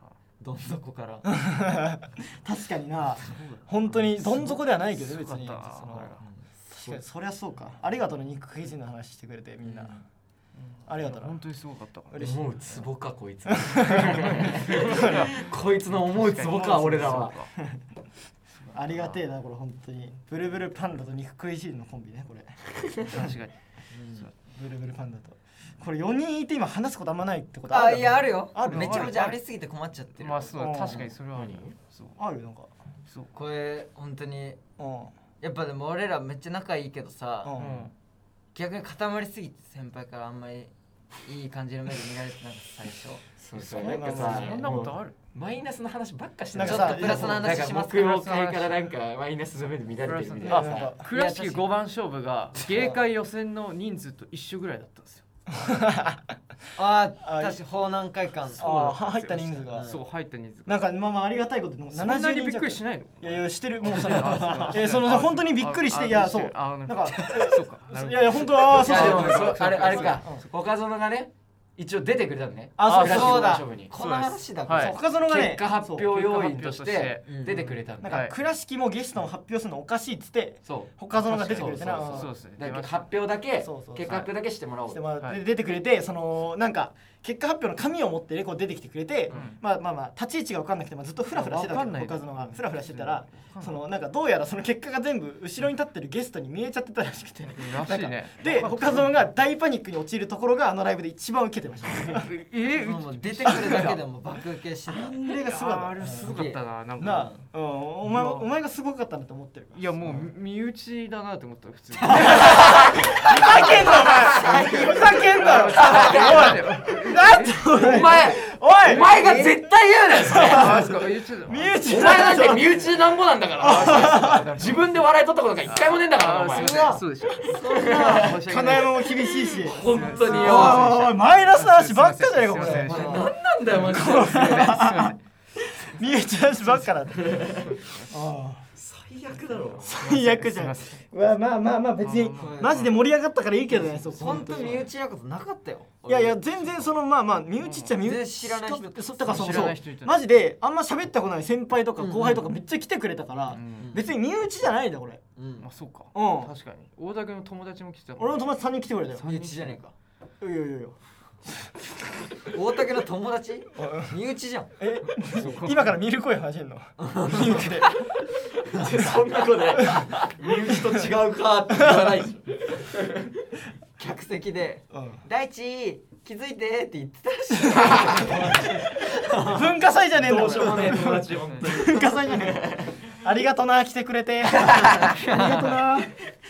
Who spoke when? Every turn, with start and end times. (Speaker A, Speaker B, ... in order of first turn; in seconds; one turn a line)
Speaker A: 0.4-1.2
Speaker B: 1.2-6.2
Speaker C: 3.2-6.2
Speaker A: 6.2-6.5
Speaker B: 6.7-10.0
Speaker D: 6.8-7.0
Speaker D: 9.7-9.9
Speaker C: 10.6-12.2
Speaker B: 10.9-11.4
Speaker B: 12.1-12.9
Speaker D: 12.2-17.4
Speaker B: 13.8-14.1
Speaker C: 14.0-17.5
Speaker B: 14.8-15.2
Speaker B: 18.7-23.3
Speaker C: 23.1-23.6
Speaker A: 23.9-24.3
Speaker B: 24.5-29.4
Speaker A: 27.7-31.1
Speaker C: 28.6-29.2
Speaker C: 30.2-32.2
Speaker B: 30.5-31.1
Speaker D: 31.3-31.7
Speaker B: 32.2-32.7
Speaker A: 33.3-34.6
Speaker B: 34.8-35.1
Speaker A: 35.4-37.5
Speaker B: 37.4-37.9
Speaker C: 37.6-37.9
Speaker A: 38.5-43.3
Speaker D: 43.4-50.9
Speaker B: 43.5-44.8
Speaker C: 43.9-45.1
Speaker B: 46.5-47.5
Speaker A: 46.6-48.6
Speaker C: 48.0-48.7
Speaker C: 50.0-55.2
Speaker B: 50.4-51.0
Speaker A: 51.1-51.7
Speaker B: 52.7-53.0
Speaker B: 55.5-56.3
Speaker A: 56.8-58.6
Speaker B: 57.2-57.6
Speaker B: 58.6-60.0
Speaker C: 58.6-60.8
Speaker A: 59.7-60.0
Speaker B: 60.6-70.4
Speaker C: 61.9-70.4
Speaker D: 68.7-73.9
Speaker B: 72.8-73.6
Speaker C: 72.8-73.3
Speaker A: 72.9-75.0
Speaker C: 73.9-75.0
Speaker B: 74.7-76.1
Speaker D: 75.1-78.1
Speaker C: 76.0-77.4
Speaker A: 77.3-77.7
Speaker B: 78.0-82.3
Speaker C: 78.1-78.3
Speaker D: 80.6-85.0
Speaker C: 81.3-83.3
Speaker B: 83.6-102.3
Speaker C: 89.3-89.6
Speaker C: 91.3-93.8
Speaker C: 97.5-99.2
Speaker C: 102.0-104.0
Speaker A: 102.8-105.2
Speaker B: 104.8-106.4
Speaker C: 105.4-107.5
Speaker A: 106.2-106.6
Speaker B: 107.0-110.1
Speaker C: 108.0-108.5
Speaker C: 109.7-118.0
Speaker A: 112.0-115.3
Speaker B: 112.2-119.1
Speaker D: 112.3-113.2
Speaker D: 114.0-115.2
Speaker D: 115.8-116.8
Speaker D: 117.6-120.8
Speaker A: 118.9-119.7
Speaker B: 120.2-122.8
Speaker C: 120.3-123.0
Speaker D: 121.8-127.0
Speaker B: 123.6-124.5
Speaker C: 123.6-125.1
Speaker C: 125.6-133.3
Speaker A: 126.5-128.3
Speaker B: 126.6-127.0
Speaker D: 127.5-128.4
Speaker B: 127.7-133.2
Speaker D: 129.6-130.9
Speaker A: 129.8-130.9
Speaker D: 132.6-134.8
Speaker A: 132.9-133.2
Speaker B: 133.8-137.5
Speaker C: 133.8-135.2
Speaker D: 137.2-137.8
Speaker C: 137.4-138.1
Speaker B: 138.1-138.6
Speaker D: 138.8-139.9
Speaker B: 139.8-144.9
Speaker C: 139.9-141.0
Speaker C: 142.0-142.9
Speaker A: 142.3-142.8
Speaker A: 143.7-146.9
Speaker B: 146.0-155.2
Speaker C: 147.6-147.9
Speaker A: 148.0-149.7
Speaker C: 149.2-150.2
Speaker A: 152.0-152.5
Speaker C: 153.5-153.9
Speaker A: 153.8-154.1
Speaker A: 155.3-155.7
Speaker C: 155.6-158.5
Speaker B: 156.1-156.5
Speaker B: 158.2-159.2
Speaker C: 159.1-159.8
Speaker A: 159.2-159.9
Speaker B: 160.4-161.0
Speaker A: 162.5-164.7
Speaker B: 163.8-164.1
Speaker B: 164.8-168.0
Speaker C: 165.3-166.0
Speaker A: 167.0-167.7
Speaker D: 168.7-173.3
Speaker A: 174.0-179.6
Speaker B: 174.9-175.2
Speaker B: 177.8-178.2
Speaker B: 179.4-186.2
Speaker D: 180.2-183.0
Speaker A: 184.8-185.9